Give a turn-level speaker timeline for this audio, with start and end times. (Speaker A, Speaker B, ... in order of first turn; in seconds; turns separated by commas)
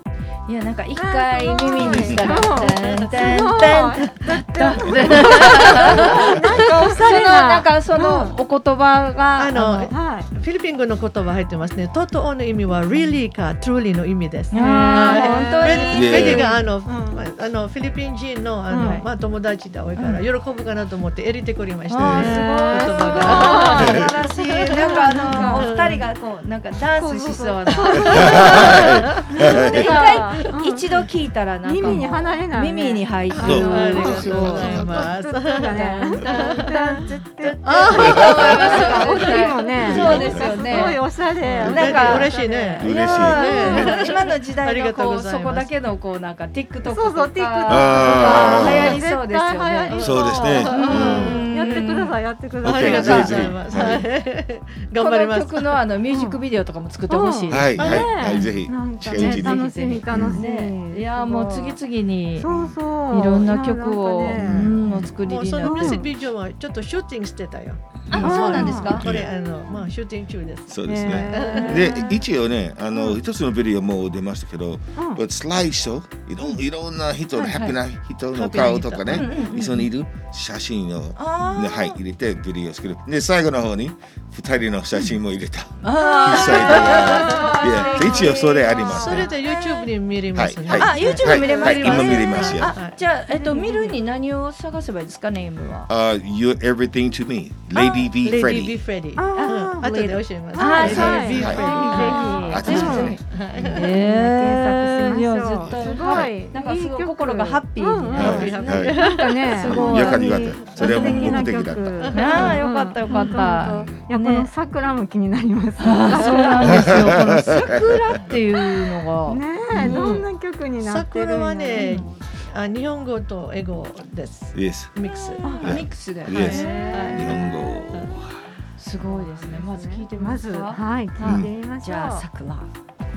Speaker A: 0.5-9.9, Speaker B: 0.9-8.3, Speaker C: 1.8-2.2, Speaker D: 1.9-3.4, Speaker D: 5.2-6.1, Speaker D: 9.3-26.0, Speaker B: 9.9-10.3, Speaker A: 14.5-16.6, Speaker B: 14.5-17.2, Speaker C: 15.8-16.5, Speaker B: 18.7-19.0, Speaker A: 18.7-19.0, Speaker A: 19.9-20.2, Speaker A: 21.9-34.8, Speaker C: 21.9-22.4, Speaker B: 22.2-26.0, Speaker C: 23.6-24.0, Speaker B: 26.9-30.9, Speaker C: 28.1-29.9, Speaker B: 31.6-42.9, Speaker D: 33.3-37.0, Speaker C: 33.4-35.0, Speaker A: 36.1-36.7, Speaker A: 37.4-41.0, Speaker D: 37.6-40.1, Speaker C: 38.0-39.0, Speaker C: 39.7-41.0, Speaker D: 41.5-45.7, Speaker C: 41.6-44.1, Speaker A: 41.6-50.1, Speaker B: 46.9-53.5, Speaker C: 47.6-49.0, Speaker C: 49.9-51.5, Speaker D: 50.0-51.5, Speaker A: 50.6-52.1, Speaker C: 52.6-54.0, Speaker D: 52.6-55.8, Speaker A: 53.0-53.3, Speaker A: 54.9-58.5, Speaker B: 56.1-56.4, Speaker B: 57.1-61.8, Speaker C: 57.5-60.4, Speaker D: 57.8-58.2, Speaker A: 59.1-62.6, Speaker B: 62.4-64.7, Speaker C: 62.4-62.8, Speaker A: 63.1-66.0, Speaker C: 64.2-65.2, Speaker D: 65.2-72.0, Speaker B: 65.6-66.1, Speaker C: 68.1-69.3, Speaker A: 68.1-69.1, Speaker B: 68.1-69.0, Speaker C: 70.7-89.4, Speaker B: 70.8-71.8, Speaker A: 71.3-72.2, Speaker B: 75.0-75.2, Speaker A: 77.4-77.7, Speaker A: 78.3-79.8, Speaker B: 79.2-79.6, Speaker A: 81.1-82.0, Speaker A: 85.8-89.9, Speaker B: 86.0-89.2, Speaker D: 87.4-87.9, Speaker D: 88.8-93.0, Speaker C: 90.3-92.8, Speaker A: 90.7-95.9, Speaker B: 91.4-91.6, Speaker B: 93.3-93.9, Speaker C: 95.9-98.8, Speaker D: 97.8-103.8, Speaker B: 99.2-99.9, Speaker A: 99.3-108.7, Speaker B: 100.5-103.2, Speaker C: 100.7-103.9, Speaker B: 103.8-117.2, Speaker C: 105.6-106.3, Speaker C: 108.1-112.5, Speaker D: 108.2-109.6, Speaker A: 109.4-111.4, Speaker D: 112.0-112.6, Speaker A: 112.1-114.5, Speaker C: 113.1-114.0, Speaker A: 115.8-120.2, Speaker C: 116.6-118.0, Speaker B: 119.3-122.2, Speaker D: 119.7-120.2, Speaker D: 120.8-125.8, Speaker A: 121.7-122.1, Speaker C: 124.5-125.0, Speaker A: 125.1-127.4, Speaker B: 125.4-125.8, Speaker C: 125.6-128.5, Speaker B: 126.3-127.3, Speaker D: 126.7-127.6, Speaker A: 128.8-132.7, Speaker B: 129.0-132.2, Speaker C: 131.2-131.5